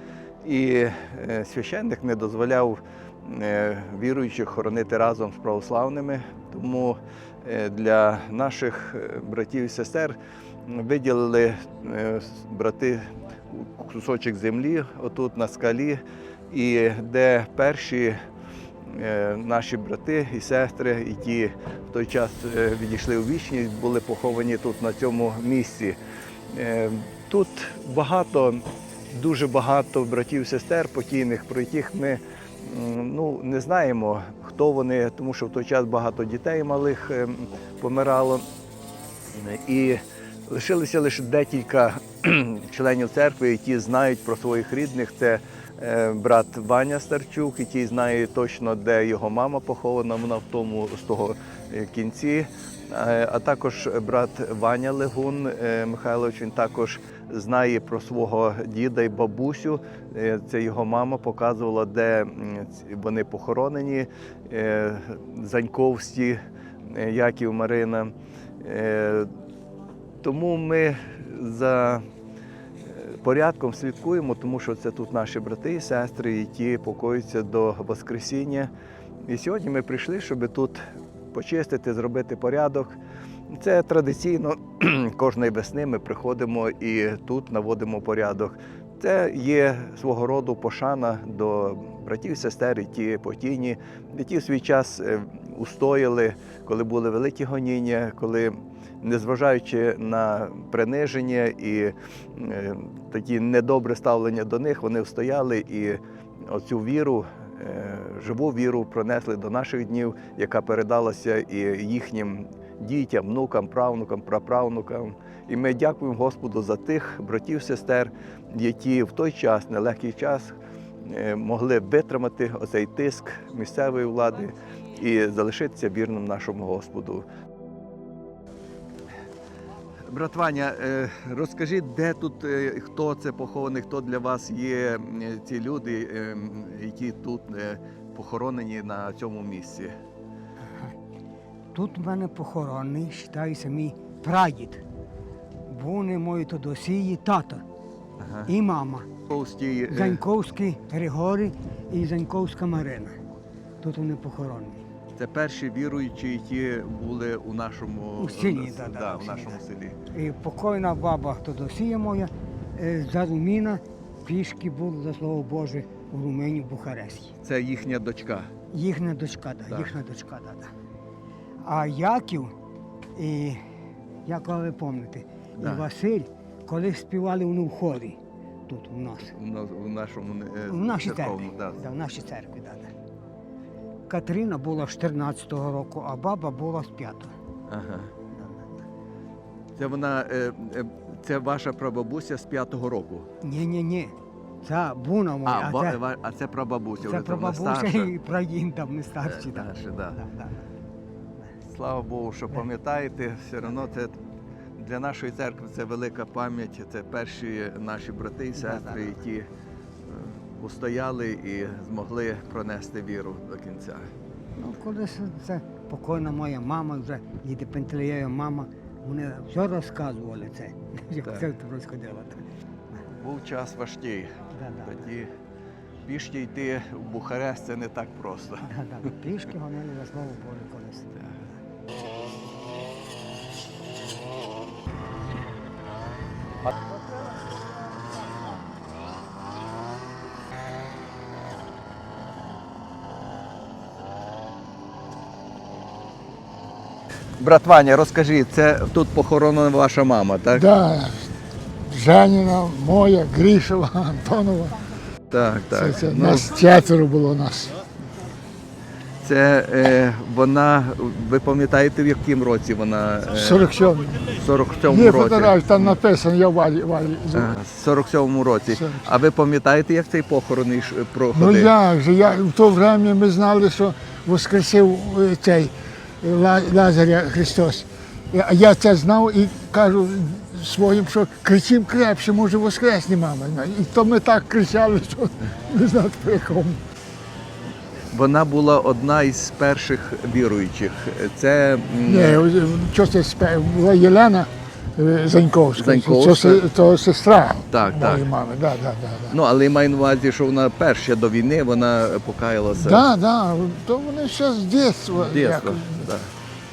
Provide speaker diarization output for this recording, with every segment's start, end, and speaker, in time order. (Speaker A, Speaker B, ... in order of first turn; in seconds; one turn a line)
Speaker A: 0.4-18.2
Speaker A: 18.9-26.0
Speaker A: 26.5-38.5
Speaker A: 39.3-69.3
Speaker A: 70.2-72.0
Speaker A: 72.8-78.7
Speaker A: 79.2-83.0
Speaker A: 83.5-127.2
Speaker A: 130.1-139.9
Speaker B: 141.7-144.8
Speaker B: 145.7-147.6
Speaker A: 148.2-148.5
Speaker B: 148.5-149.1
Speaker A: 149.3-150.2
Speaker B: 149.9-153.2
Speaker B: 153.8-154.8
Speaker A: 155.2-160.0
Speaker B: 158.2-167.3
Speaker A: 167.4-168.5
Speaker B: 168.7-170.7
Speaker B: 171.7-172.5
Speaker B: 173.2-173.6
Speaker B: 174.3-179.3
Speaker A: 175.6-175.9
Speaker A: 179.3-181.8
Speaker B: 180.7-182.9
Speaker B: 184.1-187.3
Speaker A: 187.7-188.1
Speaker B: 188.3-188.8
Speaker A: 189.8-193.3
Speaker B: 193.4-196.0
Speaker A: 195.4-198.1
Speaker B: 197.0-200.6
Speaker A: 199.2-200.2
Speaker A: 201.7-204.2
Speaker A: 204.8-209.5
Speaker B: 208.6-209.2
Speaker A: 210.1-214.1
Speaker B: 214.6-223.0
Speaker A: 223.1-225.3
Speaker B: 224.5-225.1
Speaker A: 226.1-228.7
Speaker B: 228.7-231.1
Speaker A: 247.4-250.7
Speaker C: 250.5-251.3
Speaker C: 251.8-254.8
Speaker A: 255.3-256.5
Speaker C: 255.7-257.8
Speaker A: 259.2-263.7
Speaker C: 263.4-267.5
Speaker A: 264.3-265.9
Speaker A: 267.4-271.7
Speaker C: 268.7-269.1
Speaker C: 271.3-286.8
Speaker A: 288.1-292.4
Speaker C: 292.1-299.4
Speaker A: 295.8-296.6
Speaker A: 297.7-298.3
Speaker A: 299.3-303.0
Speaker C: 302.7-306.1
Speaker A: 305.2-306.3